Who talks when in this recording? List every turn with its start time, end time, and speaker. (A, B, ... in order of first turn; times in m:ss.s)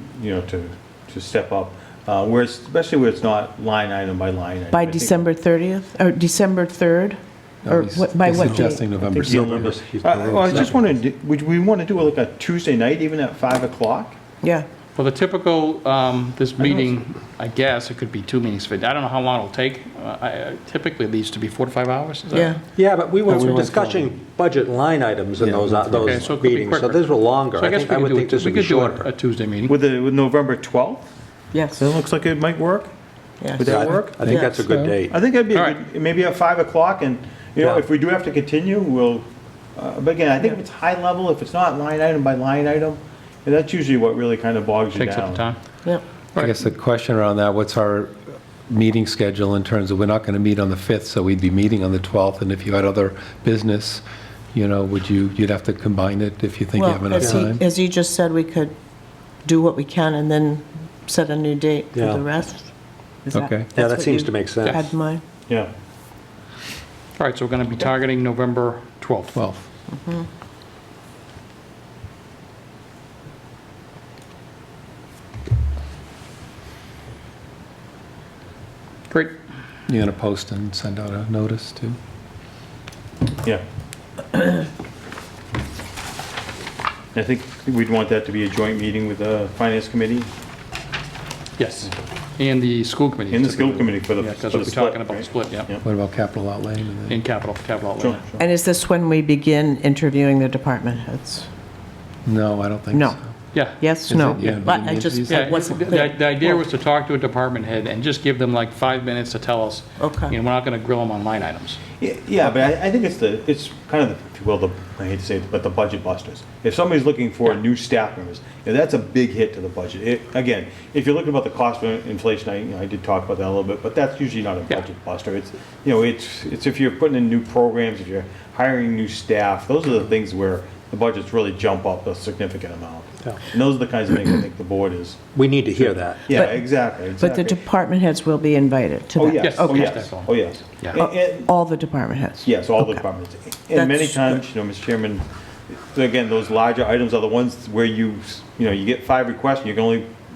0:00.1-0:05.2 A
0:04.7-0:08.8 B
0:07.6-0:10.7 C
0:08.5-0:14.2 A
0:09.2-0:10.7 D
0:14.4-0:14.7 B
0:15.0-0:22.5 E
0:22.3-0:22.6 B
0:22.8-0:29.1 D
0:23.3-0:24.0 C
0:23.3-0:23.6 B
0:25.4-0:25.7 A
0:25.9-0:29.7 E
0:29.6-0:31.1 A
0:31.5-0:31.8 B
0:31.7-0:32.9 A
0:33.4-0:33.7 B
0:33.6-0:34.2 A
0:33.6-0:35.2 D
0:34.2-0:35.0 C
0:35.1-0:39.2 A
0:35.5-0:35.8 E
0:39.8-0:45.4 A
0:44.9-0:45.6 E
0:46.4-0:48.2 C
0:48.7-0:57.6 C
0:56.8-0:58.7 B
0:57.2-0:57.5 D
0:59.4-1:02.7 B
1:01.9-1:02.2 D
1:03.2-1:05.2 B
1:03.3-1:03.7 C
1:03.7-1:04.8 D
1:07.2-1:09.4 E
1:09.3-1:09.6 C
1:09.9-1:10.3 B
1:19.1-1:19.3 E
1:19.9-1:22.0 C
1:27.1-1:30.3 A
1:31.6-1:35.7 E
1:33.3-1:35.8 A
1:35.8-1:37.2 C
1:37.1-1:38.2 E
1:38.0-1:38.4 A
1:38.4-1:41.5 B
1:42.2-1:43.3 C
1:42.9-1:43.2 B
1:43.5-1:43.9 E
1:43.7-1:46.6 B
1:44.0-1:45.8 C
1:45.3-1:51.8 E
1:50.0-1:50.3 B
1:52.0-2:15.2 A
2:15.3-2:16.4 D
2:15.8-2:17.6 A
2:16.3-2:20.0 B
2:19.2-2:21.5 A
2:19.4-2:21.0 E
2:20.9-2:23.0 B
2:22.4-2:25.2 A
2:23.7-2:24.4 B
2:25.9-2:30.1 A